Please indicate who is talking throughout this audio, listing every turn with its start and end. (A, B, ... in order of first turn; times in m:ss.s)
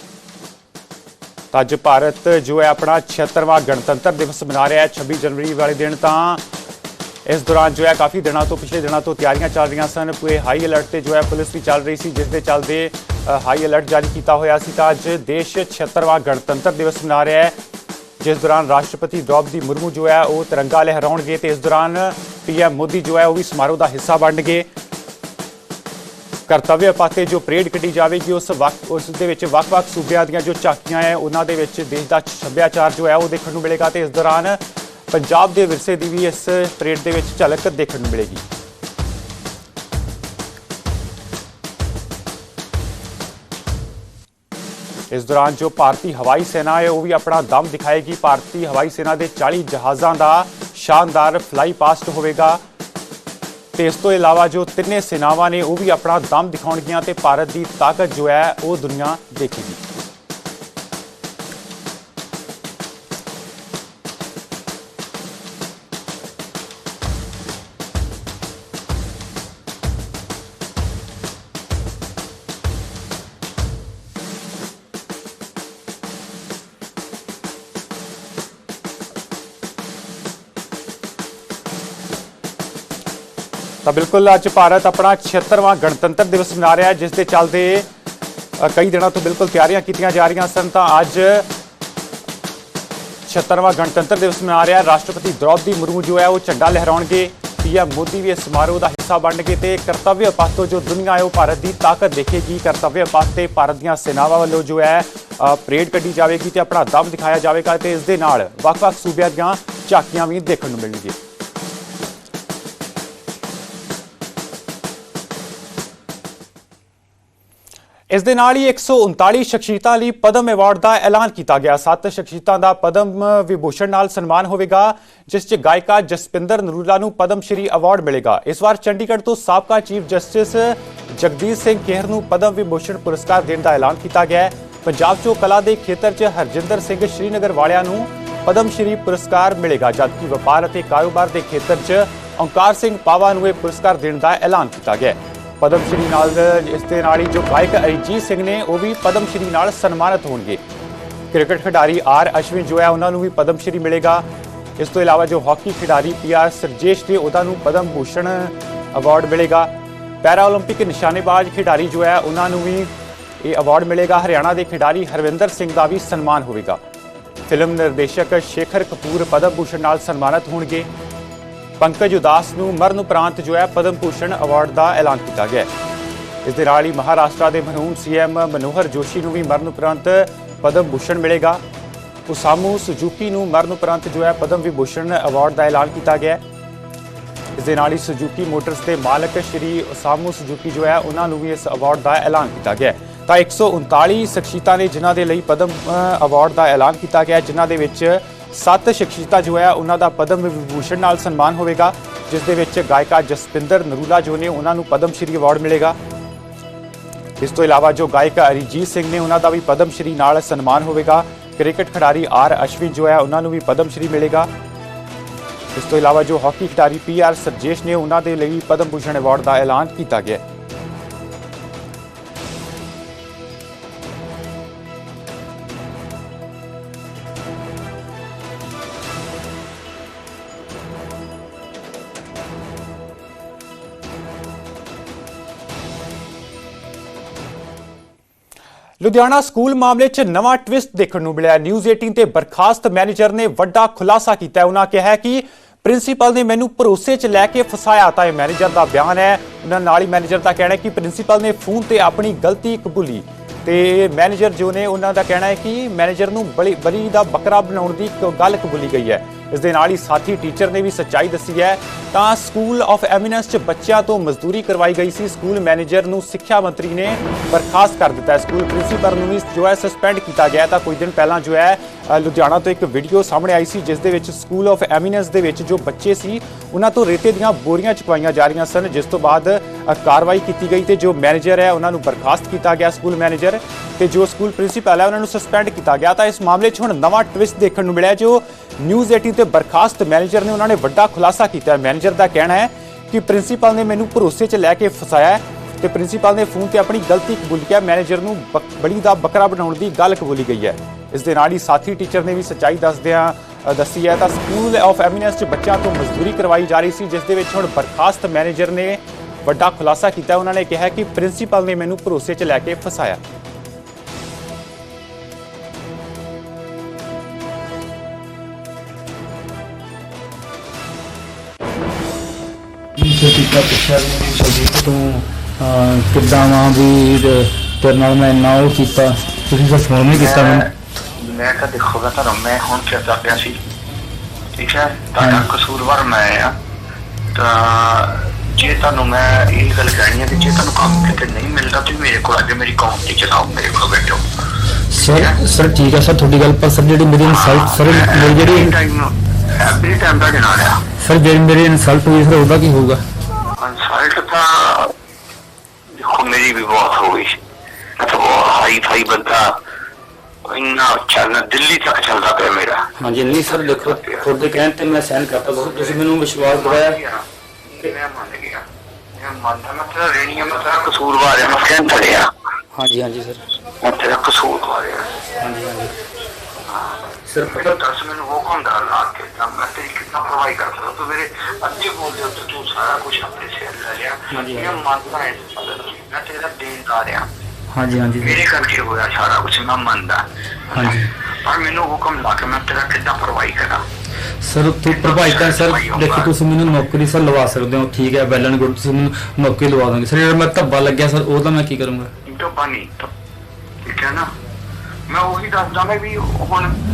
0:01.5-0:06.4 A
0:07.2-0:17.6 A
0:18.2-0:24.7 A
0:26.5-0:38.4 A
0:45.1-0:52.6 A
0:53.8-0:59.8 A
1:23.8-1:27.9 A
1:28.6-1:31.5 A
1:33.3-1:51.2 A
1:58.1-2:30.6 A
2:31.3-2:34.3 A
2:34.8-2:46.8 A
2:47.5-2:50.9 A
2:51.8-2:55.7 A
2:56.4-3:01.6 A
3:02.3-3:06.4 A
3:07.6-3:26.0 A
3:27.4-3:34.5 A
3:35.7-3:40.4 A
3:59.0-5:13.2 A
5:23.0-5:30.7 B
5:30.1-5:33.6 C
5:34.6-5:36.5 C
5:35.2-5:35.5 B
5:37.3-5:44.2 C
5:44.9-5:48.7 B
5:45.0-5:45.4 C
5:47.2-5:50.8 C
5:51.0-5:53.0 B
5:53.6-5:54.9 C
5:55.9-5:57.4 C
5:58.0-5:59.6 C
6:00.4-6:04.3 C
6:03.0-6:07.0 B
6:05.4-6:08.6 C
6:09.2-6:12.3 C
6:12.7-6:13.4 B
6:13.8-6:15.1 C
6:15.4-6:15.9 B
6:16.7-6:27.3 C
6:17.3-6:17.8 B
6:24.3-6:24.7 B
6:27.7-6:28.4 B
6:28.2-6:33.8 C
6:30.7-6:31.1 B
6:34.4-6:42.1 B
6:34.9-6:36.3 C
6:42.2-6:43.1 C
6:43.8-6:44.3 C
6:45.1-6:46.7 C